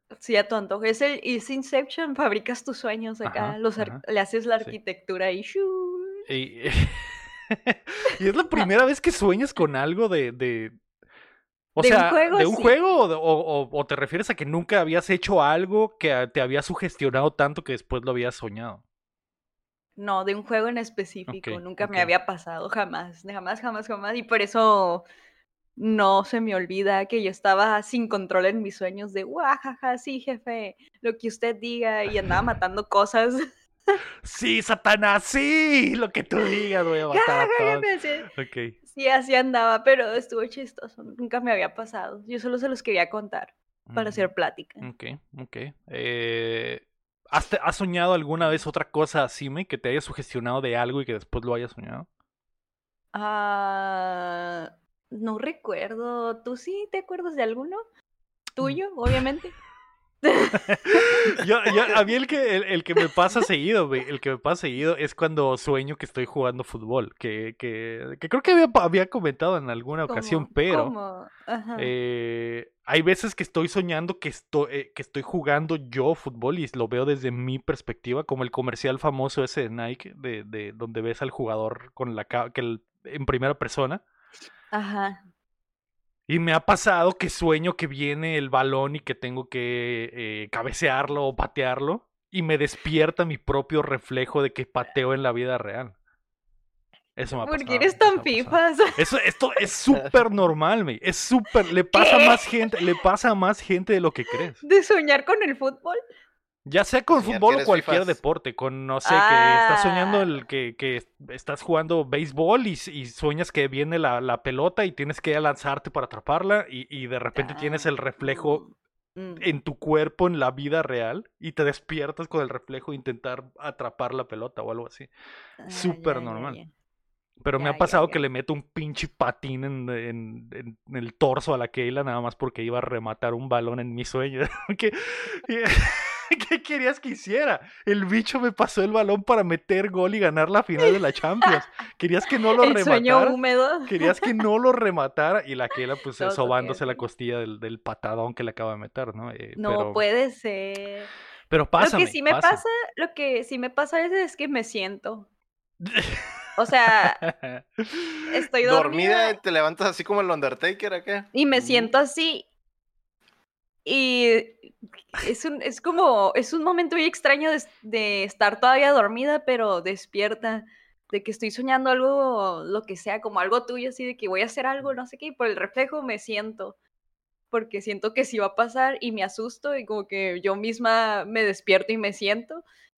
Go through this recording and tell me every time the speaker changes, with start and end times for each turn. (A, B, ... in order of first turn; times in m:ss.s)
0:00.2-0:06.2 A
0:03.2-0:04.0 B
0:06.3-0:10.8 B
0:11.7-0:18.8 B
0:11.8-0:12.8 A
0:20.0-0:25.0 A
0:21.3-0:22.1 B
0:25.8-0:34.0 A
0:34.2-0:38.8 B
0:37.1-0:38.3 A
0:38.9-0:44.9 A
0:43.9-0:44.3 B
0:44.8-0:52.1 B
0:53.1-0:57.8 A
0:58.6-0:59.6 A
1:00.2-1:01.2 A
1:00.5-1:10.9 B
1:10.1-1:11.9 A
1:11.8-1:24.0 B
1:24.7-1:25.2 A
1:26.3-1:35.9 B
1:37.2-1:44.6 B
1:37.4-1:39.0 A
1:41.9-1:42.7 A
1:44.6-1:46.0 A
1:46.6-1:58.6 B
1:47.1-1:48.2 C
1:49.0-1:50.3 A
1:57.3-1:59.5 A
1:59.4-2:05.1 B
2:05.6-2:06.7 A
2:05.7-2:06.6 B
2:07.4-2:30.0 B
2:07.6-2:08.2 A
2:20.8-2:21.6 A
2:22.6-2:24.4 A
2:26.2-2:27.0 A
2:29.6-2:31.1 A
2:31.5-2:32.6 B
2:31.8-2:35.3 A
2:35.8-2:38.2 B
2:36.6-2:37.2 A
2:38.3-2:39.4 A
2:38.6-2:41.4 C
2:41.3-2:42.4 A
2:43.8-2:56.8 A
2:57.5-3:02.6 A